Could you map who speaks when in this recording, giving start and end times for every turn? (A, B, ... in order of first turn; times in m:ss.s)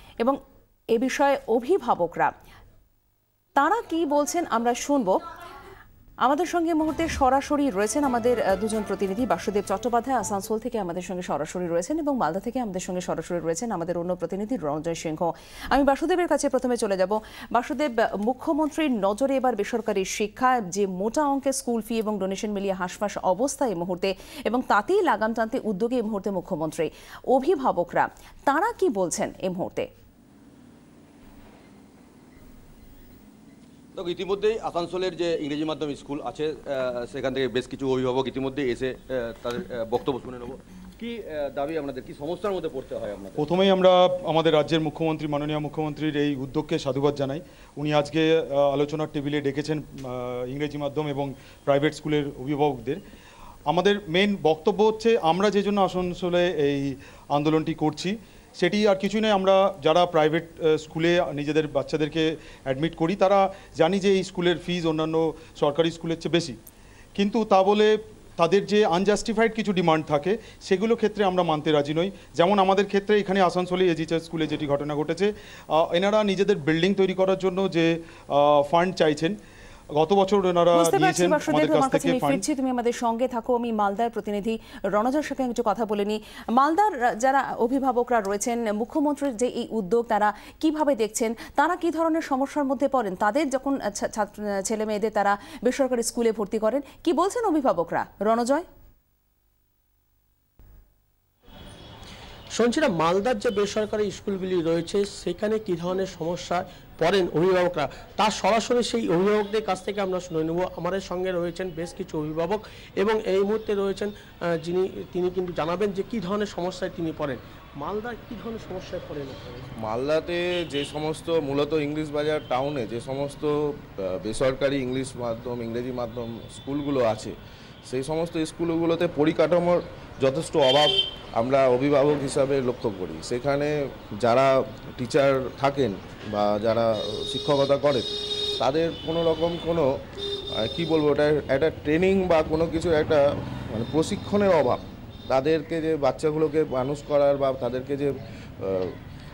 0:00.9-0:02.3 A
0:03.6-0:05.2 A
0:06.2-0:29.9 A
0:33.9-0:43.5 B
0:43.4-0:53.0 C
0:53.7-1:06.6 C
1:07.2-1:19.4 C
1:20.0-1:22.4 C
1:20.7-1:38.7 A
1:42.5-1:59.7 D
1:59.8-2:07.4 E
2:07.9-2:19.9 E
2:20.6-2:29.0 E